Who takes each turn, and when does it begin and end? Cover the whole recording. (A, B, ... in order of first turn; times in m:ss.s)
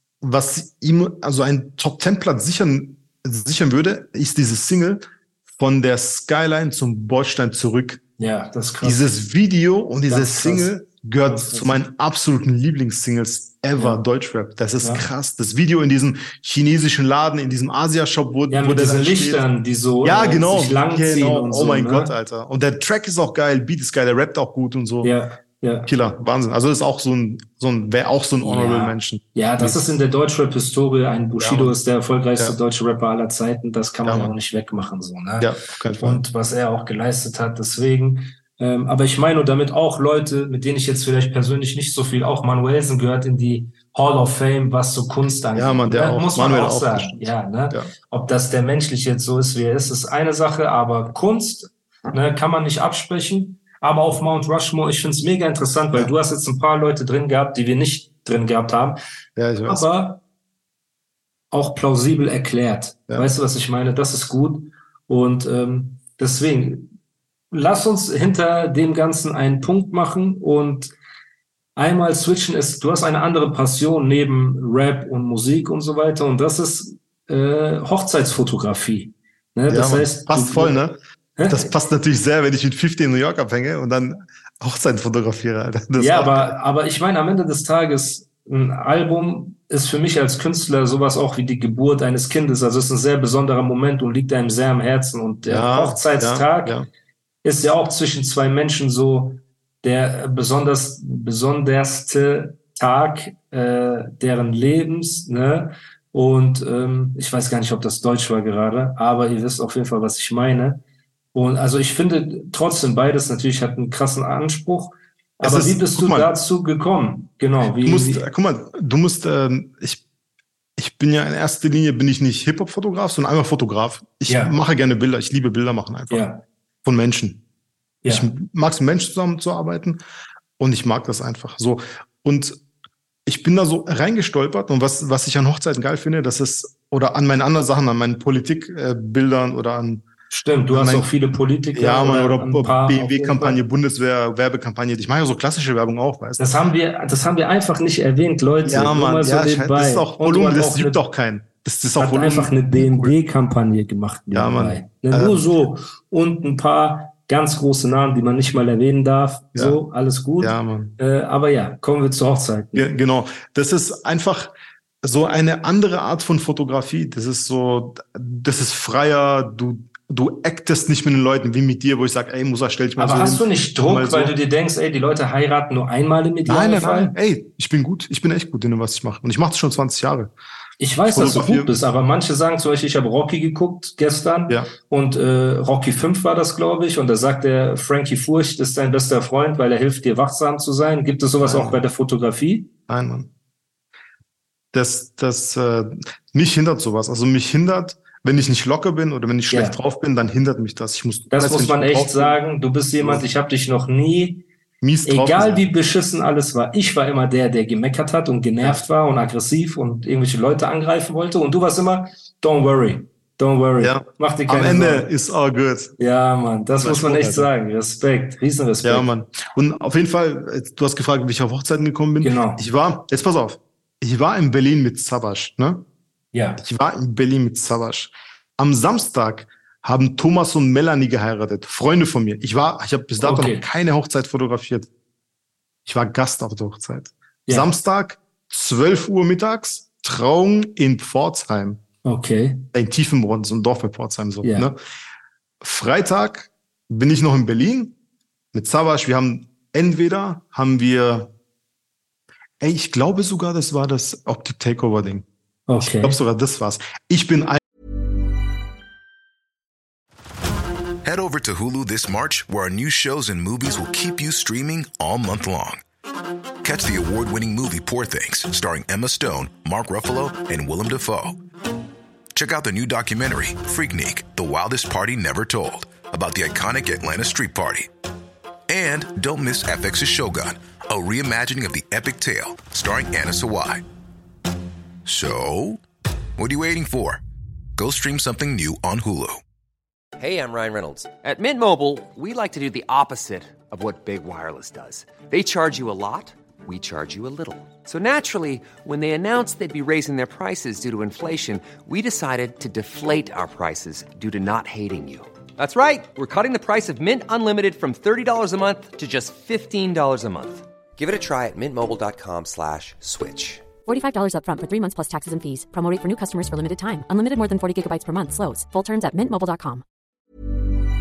0:00.2-0:08.0 A
0:08.2-0:09.1 B
0:08.8-0:19.5 A
0:10.1-0:10.7 B
0:11.2-0:11.8 B
0:13.8-0:14.0 B
0:14.8-0:15.1 B
0:18.5-0:22.1 B
0:20.0-0:25.1 A
0:25.0-0:25.9 B
0:25.9-0:29.9 A
0:28.4-0:59.0 B
0:31.4-0:31.8 A
0:34.1-0:34.3 A
0:35.4-0:36.2 A
0:45.5-0:47.9 A
0:59.4-0:59.9 A
0:59.7-1:00.2 B
1:01.5-1:06.9 B
1:07.5-1:10.9 B
1:11.8-1:20.8 B
1:19.7-1:26.6 A
1:21.4-1:21.7 B
1:26.0-1:36.8 B
1:35.5-1:36.9 A
1:37.4-1:50.8 B
1:51.3-1:58.3 B
1:55.4-1:56.3 A
1:57.8-2:00.0 A
2:00.8-2:06.3 A
2:04.3-2:04.6 B
2:06.1-2:06.4 B
2:06.8-2:07.4 A
2:08.0-2:08.3 B
2:08.1-2:10.0 A
2:10.6-2:12.6 A
2:13.3-2:20.0 A
2:20.3-2:23.6 B
2:20.7-2:21.1 A
2:21.7-2:26.4 A
2:26.4-2:31.0 B
2:28.6-2:33.2 A
2:32.0-2:42.9 B
2:34.3-2:35.5 A
2:40.4-2:41.0 A
2:42.8-2:54.4 A
2:53.0-2:57.2 B
2:56.5-3:00.3 A
3:00.8-3:12.7 B
3:01.1-3:01.7 A
3:11.4-3:11.8 A
3:12.9-3:13.3 A
3:14.7-3:22.4 A
3:19.5-3:19.8 B
3:21.3-3:24.4 B
3:24.8-3:25.6 A
3:25.0-3:35.1 B
3:33.8-3:36.0 A
3:36.0-3:39.1 B
3:36.8-3:37.5 A
3:38.8-3:45.9 A
3:42.2-3:42.6 B
3:46.3-3:46.6 B
3:46.6-3:54.9 A
3:53.2-3:53.7 B
3:55.9-4:01.8 A
3:57.5-3:57.7 B
4:02.0-4:02.7 B
4:02.7-4:04.8 A
4:04.4-4:04.7 B
4:05.6-4:08.0 A
4:08.5-4:11.3 A
4:12.6-4:15.3 A
4:15.7-4:16.2 B
4:15.8-4:17.6 A
4:21.0-4:25.8 C
4:26.6-4:31.4 C
4:32.3-4:37.9 C
4:38.7-4:43.8 C
4:45.1-4:45.8 C
4:46.4-4:47.2 C
4:47.8-4:49.4 C
4:50.2-5:13.7 D
5:13.9-5:19.8 E